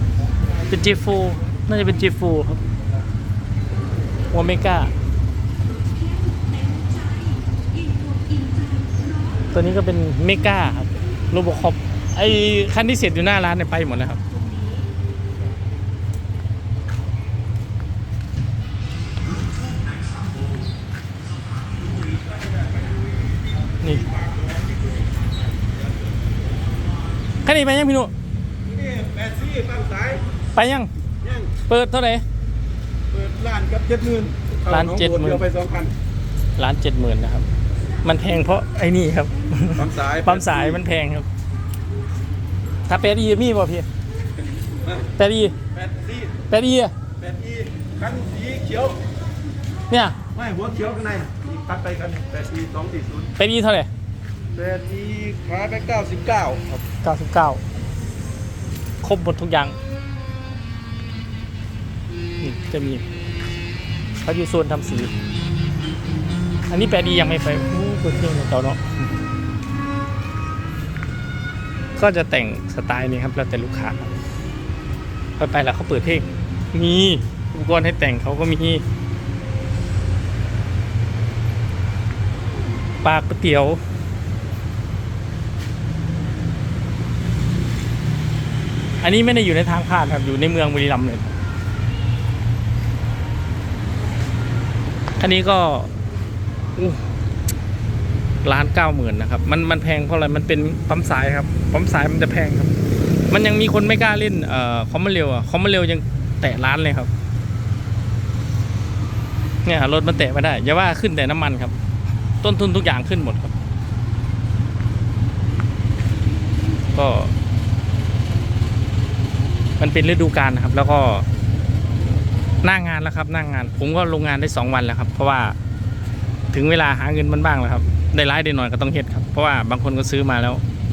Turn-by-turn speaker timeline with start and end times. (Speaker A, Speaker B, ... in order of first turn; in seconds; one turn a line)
Speaker A: 0.7-2.6
Speaker A: 4.3-4.9
Speaker A: 9.5-14.2
Speaker B: 22.6-23.0
Speaker B: 23.9-26.1
Speaker A: 27.4-28.1
Speaker B: 28.6-30.3
Speaker A: 30.5-30.9
Speaker B: 31.2-31.5
Speaker A: 31.7-32.2
Speaker B: 33.1-35.9
Speaker A: 34.7-35.4
Speaker A: 36.6-37.5
Speaker A: 38.0-41.3
Speaker B: 39.8-40.8
Speaker A: 42.9-43.9
Speaker A: 45.2-45.5
Speaker B: 45.7-46.4
Speaker A: 46.5-46.9
Speaker B: 47.2-49.0
Speaker A: 49.9-50.2
Speaker B: 50.3-53.3
Speaker A: 53.4-53.9
Speaker B: 54.5-56.6
Speaker A: 56.7-57.6
Speaker A: 59.0-59.8
Speaker A: 62.4-63.0
Speaker A: 64.2-65.1
Speaker A: 66.7-68.8
Speaker A: 72.0-74.1
Speaker A: 75.4-78.8
Speaker A: 83.0-83.8
Speaker A: 89.0-91.3
Speaker A: 95.2-95.9
Speaker A: 96.8-97.0
Speaker A: 98.4-102.7
Speaker A: 103.3-107.1
Speaker A: 109.6-111.7
Speaker A: 112.4-113.5
Speaker A: 116.9-117.3
Speaker A: 119.8-121.2
Speaker A: 122.6-125.5
Speaker A: 126.5-130.6